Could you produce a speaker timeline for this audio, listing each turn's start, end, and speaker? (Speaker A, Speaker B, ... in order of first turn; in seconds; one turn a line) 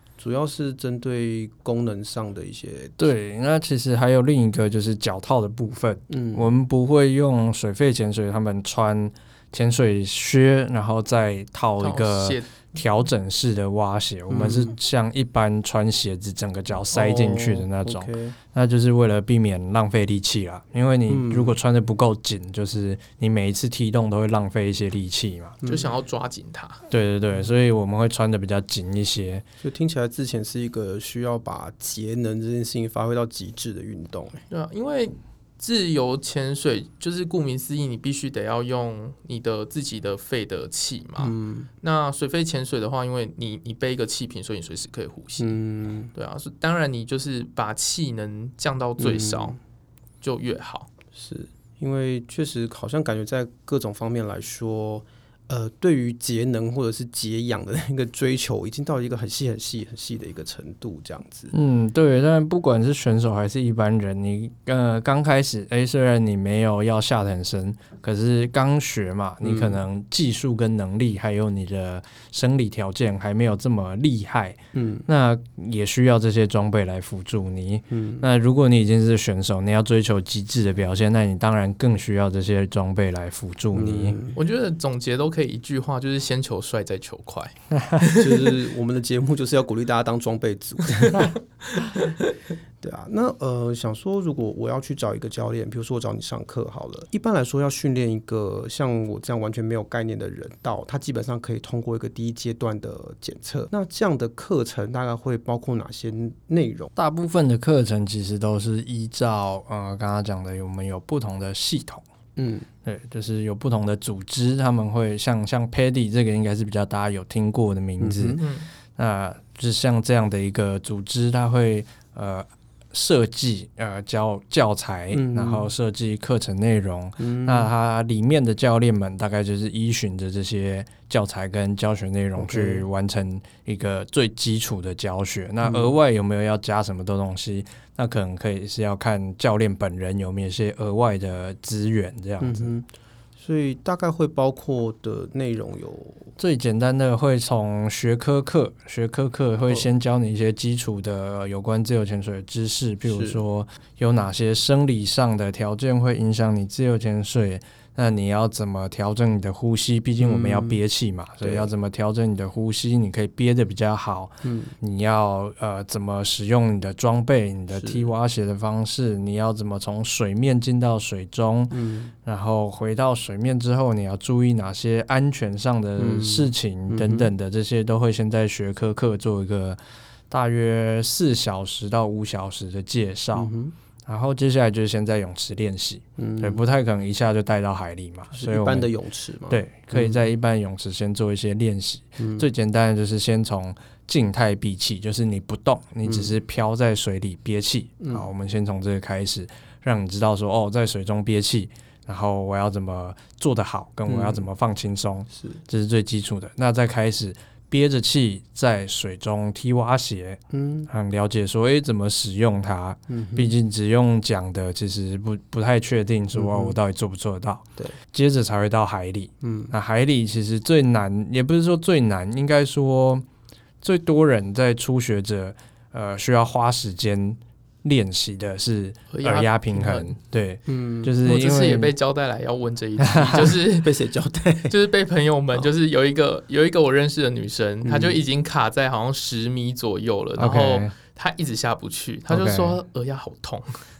Speaker A: 0.2-3.1
Speaker B: 3.0-25.6
Speaker A: 6.1-6.5
Speaker C: 11.8-12.5
Speaker A: 14.3-14.8
Speaker A: 16.9-18.4
Speaker A: 21.1-21.6
Speaker A: 25.6-25.9
Speaker C: 25.6-26.8
Speaker B: 26.9-29.4
Speaker A: 29.6-34.4
Speaker C: 34.5-45.6
Speaker A: 41.2-41.7
Speaker A: 45.4-46.1
Speaker C: 46.1-49.6
Speaker A: 49.0-49.6
Speaker C: 50.2-50.9
Speaker A: 51.1-61.5
Speaker B: 61.5-84.2
Speaker A: 69.4-69.8
Speaker A: 74.7-75.1
Speaker A: 77.9-78.3
Speaker A: 83.7-84.4
Speaker C: 84.3-88.5
Speaker A: 88.2-91.3
Speaker C: 91.1-92.3
Speaker A: 92.8-106.9
Speaker B: 107.0-112.0
Speaker A: 112.4-112.7
Speaker B: 112.8-118.4
Speaker A: 118.0-118.4
Speaker C: 118.4-118.7
Speaker B: 118.9-142.7
Speaker A: 125.1-125.7
Speaker A: 127.2-127.7
Speaker A: 132.4-132.8
Speaker A: 135.6-136.0
Speaker A: 142.4-142.9
Speaker A: 143.4-146.3
Speaker B: 146.4-179.8
Speaker A: 153.1-153.4
Speaker A: 160.2-160.8
Speaker A: 161.4-161.7
Speaker A: 164.4-164.7
Speaker A: 167.7-168.1
Speaker A: 171.7-172.1
Speaker A: 176.0-177.3
Speaker B: 180.3-183.5
Speaker A: 183.3-183.7
Speaker B: 184.1-188.9
Speaker A: 186.2-186.6
Speaker A: 188.3-190.2
Speaker B: 189.5-223.2
Speaker A: 192.2-192.4
Speaker A: 196.0-196.3
Speaker A: 198.0-198.3
Speaker A: 204.1-204.4
Speaker A: 205.3-205.6
Speaker A: 210.5-210.9
Speaker A: 213.1-213.5
Speaker A: 216.3-216.8
Speaker A: 219.4-219.7
Speaker B: 223.8-231.9
Speaker C: 229.1-230.1
Speaker A: 230.7-231.1
Speaker C: 231.2-233.9
Speaker B: 233.0-233.5
Speaker A: 233.6-234.7
Speaker C: 234.7-243.8
Speaker A: 237.8-238.2
Speaker B: 240.4-240.9
Speaker B: 242.3-242.8